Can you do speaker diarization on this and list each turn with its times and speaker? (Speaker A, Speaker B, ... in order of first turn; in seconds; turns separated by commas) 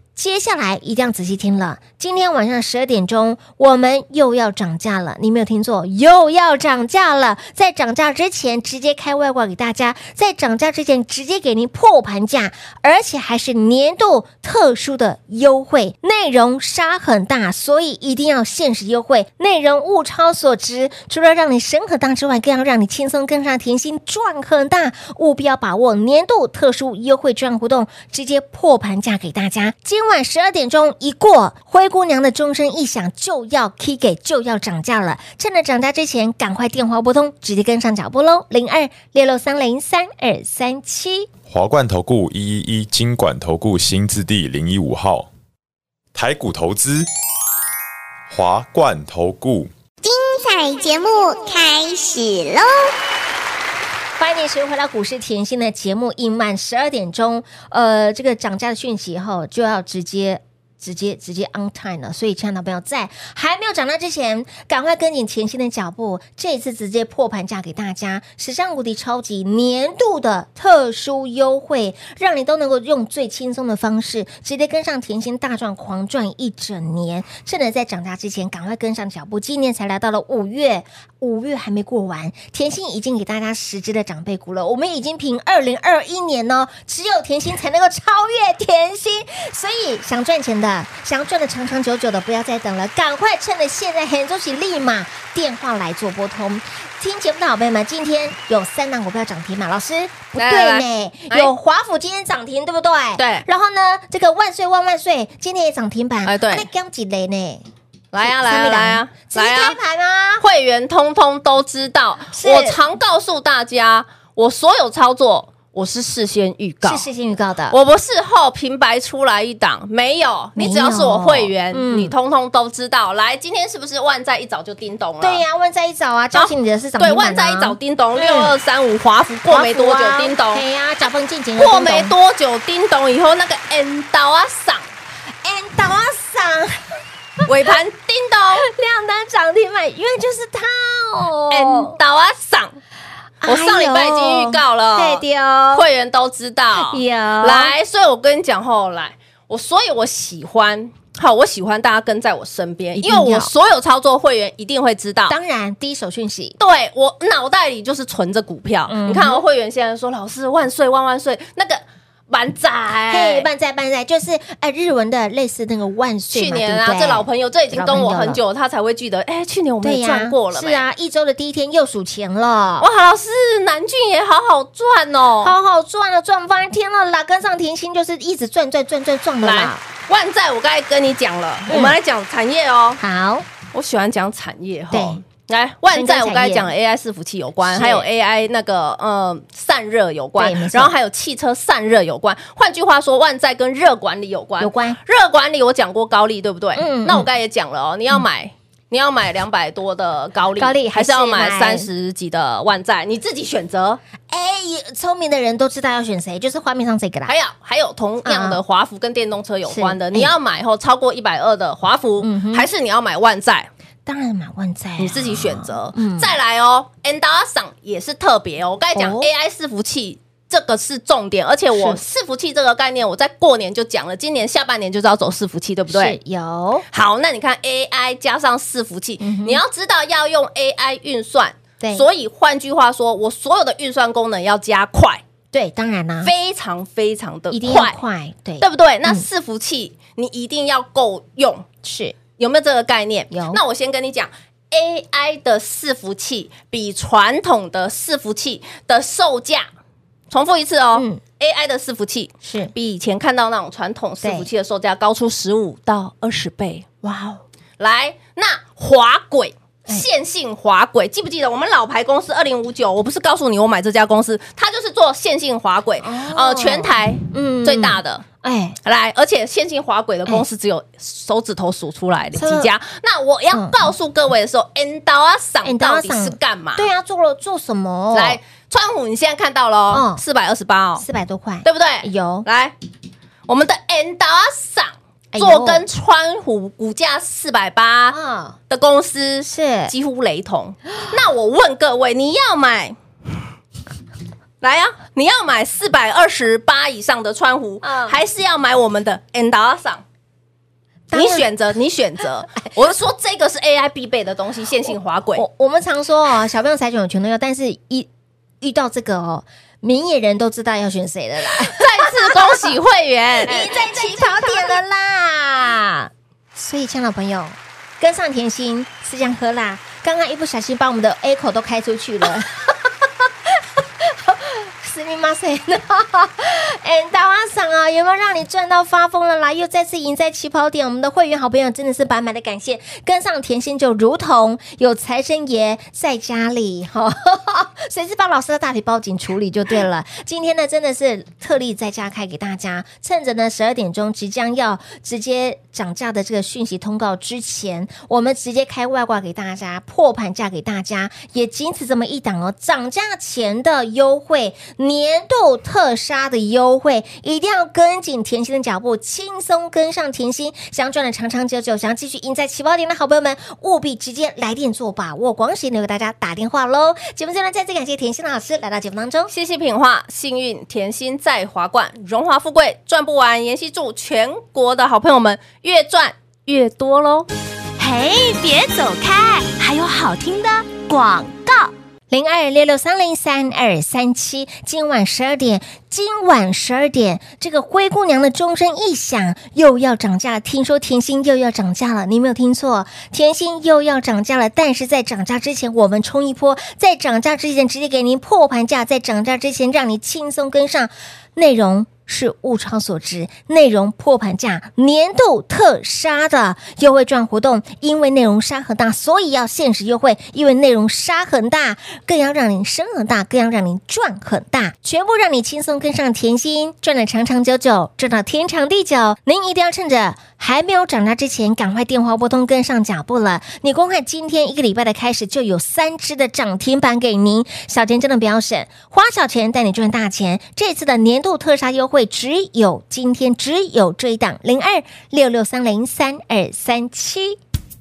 Speaker A: 0.1-41.3, Speaker B: 41.5-45.3, Speaker B: 46.1-47.1, Speaker B: 48.3-49.7, Speaker C: 50.0-52.9, Speaker A: 54.2-107.7, Speaker D: 100.4-101.5, Speaker D: 103.2-103.4, Speaker D: 106.2-106.7, Speaker D: 108.1-109.8, Speaker A: 108.2-110.4, Speaker D: 110.4-117.0, Speaker A: 112.3-112.8, Speaker A: 116.8-117.8, Speaker D: 117.7-125.4, Speaker A: 120.5-122.1, Speaker A: 125.2-128.5, Speaker D: 126.3-130.6, Speaker A: 129.5-132.1, Speaker D: 131.6-134.9, Speaker A: 135.4-137.7, Speaker D: 137.5-138.7, Speaker A: 138.6-141.9, Speaker D: 141.5-142.8, Speaker A: 143.4-145.8, Speaker D: 143.4-155.3, Speaker A: 146.8-147.7, Speaker A: 152.9-153.5, Speaker A: 155.3-156.6, Speaker D: 156.6-163.5, Speaker A: 158.9-159.4, Speaker A: 163.1-168.4, Speaker D: 166.3-170.8, Speaker A: 169.8-172.9, Speaker D: 172.8-175.5, Speaker A: 175.4-179.8, Speaker D: 179.4-183.0, Speaker A: 181.7-182.0, Speaker A: 183.0-183.5, Speaker D: 183.7-204.0, Speaker A: 184.9-185.2, Speaker A: 185.9-186.7, Speaker A: 187.6-188.1, Speaker A: 190.4-190.9, Speaker A: 194.6-195.0, Speaker A: 196.8-197.3, Speaker A: 200.6-201.9, Speaker A: 204.3-207.3, Speaker D: 207.3-213.7, Speaker A: 208.2-208.6, Speaker A: 209.7-210.3, Speaker A: 212.2-212.7, Speaker A: 214.1-216.3, Speaker D: 215.0-226.2, Speaker A: 218.9-219.3, Speaker A: 221.7-222.0, Speaker A: 225.9-226.8, Speaker D: 226.9-235.2, Speaker A: 229.2-229.6, Speaker A: 231.8-232.0, Speaker A: 235.5-236.3, Speaker D: 236.2-237.9, Speaker A: 237.5-239.2, Speaker D: 238.6-241.7, Speaker A: 241.8-242.2, Speaker D: 242.4-249.7, Speaker A: 243.3-243.6, Speaker D: 250.3-257.1, Speaker A: 250.9-251.2, Speaker A: 252.4-252.7, Speaker A: 254.2-254.5, Speaker A: 257.0-257.3, Speaker D: 257.8-268.2, Speaker A: 266.0-268.8, Speaker D: 268.8-276.9, Speaker A: 272.3-272.7, Speaker A: 273.5-273.9, Speaker A: 275.6-278.4, Speaker D: 278.1-281.0, Speaker A: 279.9-280.2, Speaker A: 281.0-282.4, Speaker D: 281.6-282.7, Speaker D: 283.5-288.2, Speaker A: 285.3-285.8, Speaker A: 288.1-288.6, Speaker D: 288.7-292.9, Speaker A: 289.4-289.9, Speaker D: 294.6-300.0, Speaker A: 297.8-298.2, Speaker A: 301.1-301.5, Speaker D: 301.1-305.4, Speaker A: 305.4-308.1, Speaker A: 308.6-312.7, Speaker D: 311.6-314.7, Speaker A: 313.4-369.3, Speaker D: 369.3-377.3, Speaker E: 377.8-381.7, Speaker A: 382.1-437.4